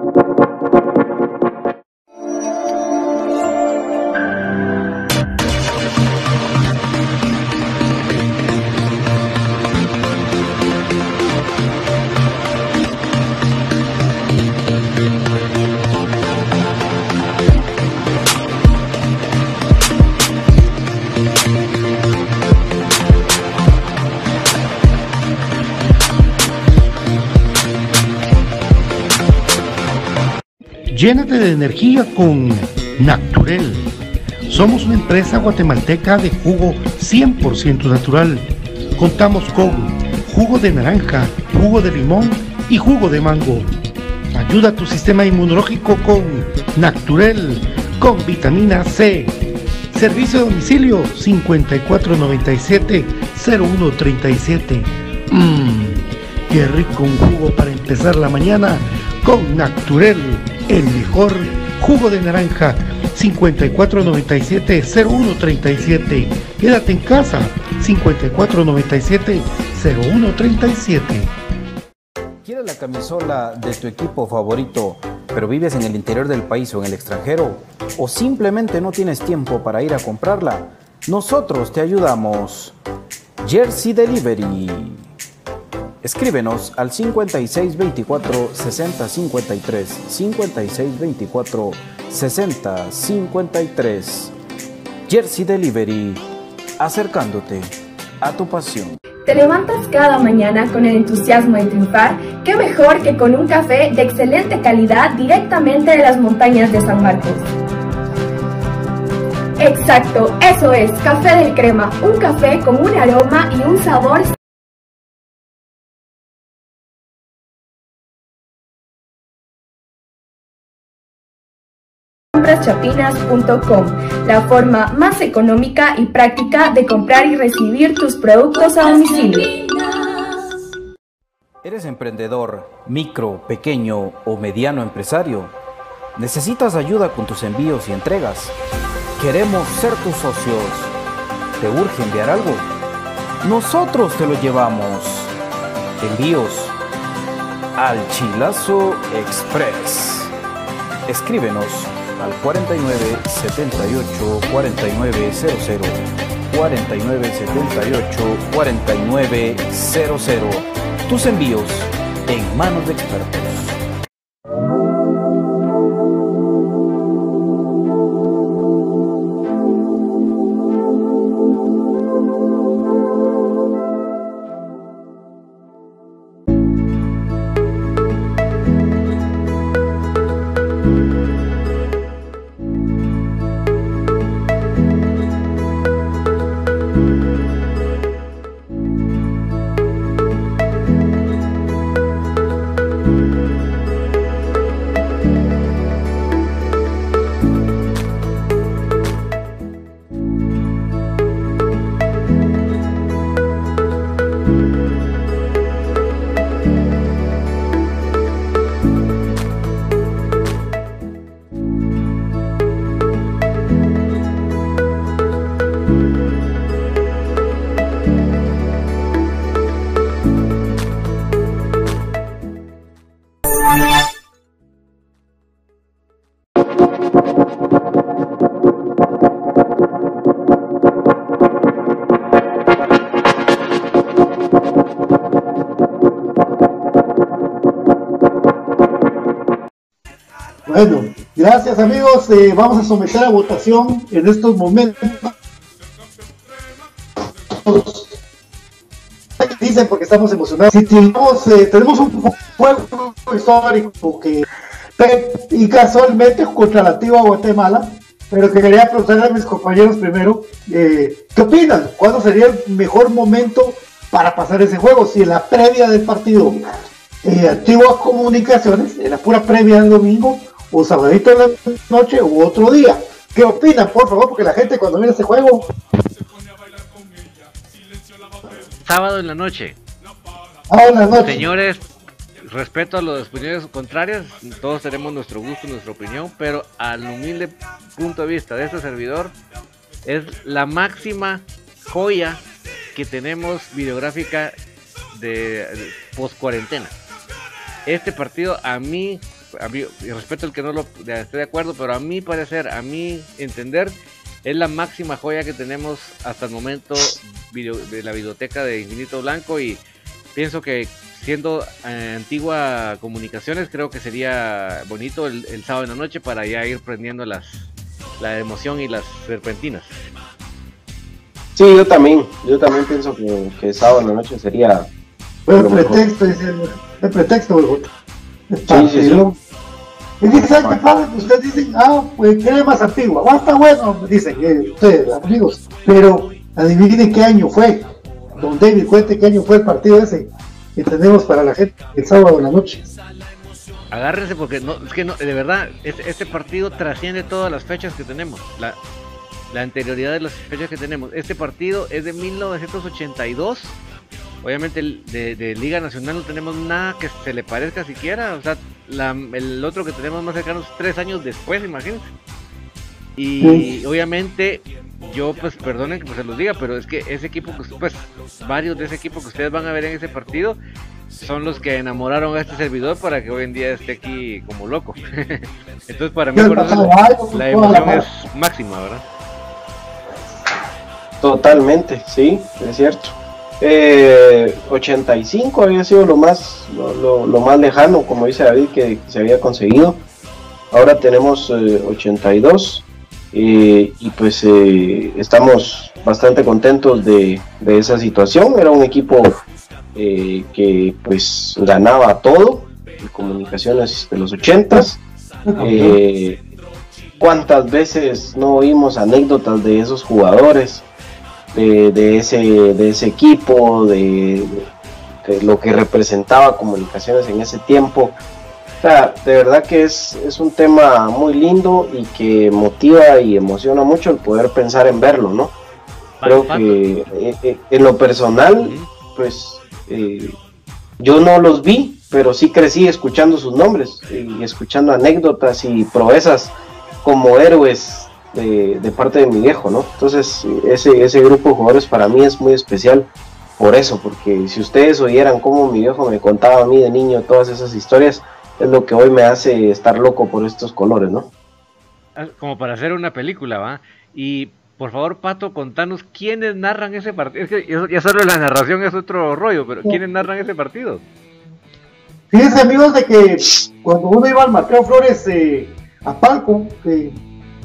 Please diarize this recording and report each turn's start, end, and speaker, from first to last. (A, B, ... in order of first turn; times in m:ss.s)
0:30.9-0:33.9 A
0:34.5-0:43.7 A
0:44.3-0:49.4 A
0:49.9-1:11.3 A
1:12.4-1:22.8 B
1:23.4-1:25.0 B
1:26.0-1:34.3 B
1:35.1-1:36.2 B
1:36.8-1:39.0 B
1:39.2-1:47.4 C
1:49.6-1:54.3 C
2:02.3-2:09.6 C
2:11.6-2:15.6 B
2:16.1-2:18.6 B
2:19.2-2:20.9 B
2:21.6-2:22.7 B
2:23.4-2:25.3 B
2:26.0-2:26.8 B
2:27.8-2:30.3 B
2:31.1-2:43.8 B
4:00.6-4:05.3 A
4:07.5-4:08.2 A
4:09.4-4:26.6 A
4:27.2-4:35.7 A
4:38.8-4:39.8 D
4:40.7-4:41.4 A
4:41.2-4:41.8 D
4:42.4-4:49.4 D
4:50.0-4:52.4 D
4:52.9-4:54.5 D
4:55.1-4:57.0 D
4:57.8-5:09.8 D
5:10.3-5:20.0 D
5:21.6-5:24.9 E
5:25.5-5:27.9 A
5:25.5-5:26.0 E
5:28.5-5:29.4 A
5:28.7-5:29.2 E
5:30.2-5:42.8 A
5:30.3-5:30.8 E
5:43.9-5:48.8 D
5:49.5-5:53.8 D
5:54.4-6:02.1 D
6:03.2-6:10.6 D
6:03.4-6:03.7 A
6:11.1-6:19.0 D
6:16.3-6:18.1 A
6:21.2-6:30.0 E
6:30.7-6:39.4 E
6:39.9-6:45.0 E
6:45.5-6:46.0 A
6:45.6-6:46.4 E
6:47.2-6:50.9 E
6:51.5-6:54.6 E
6:55.2-6:58.2 E
6:58.8-7:05.5 E
7:06.2-7:06.8 D
7:06.2-7:10.4 E
7:08.6-7:08.9 D
7:11.0-7:31.3 E
7:32.2-7:41.0 D
7:42.3-7:47.2 A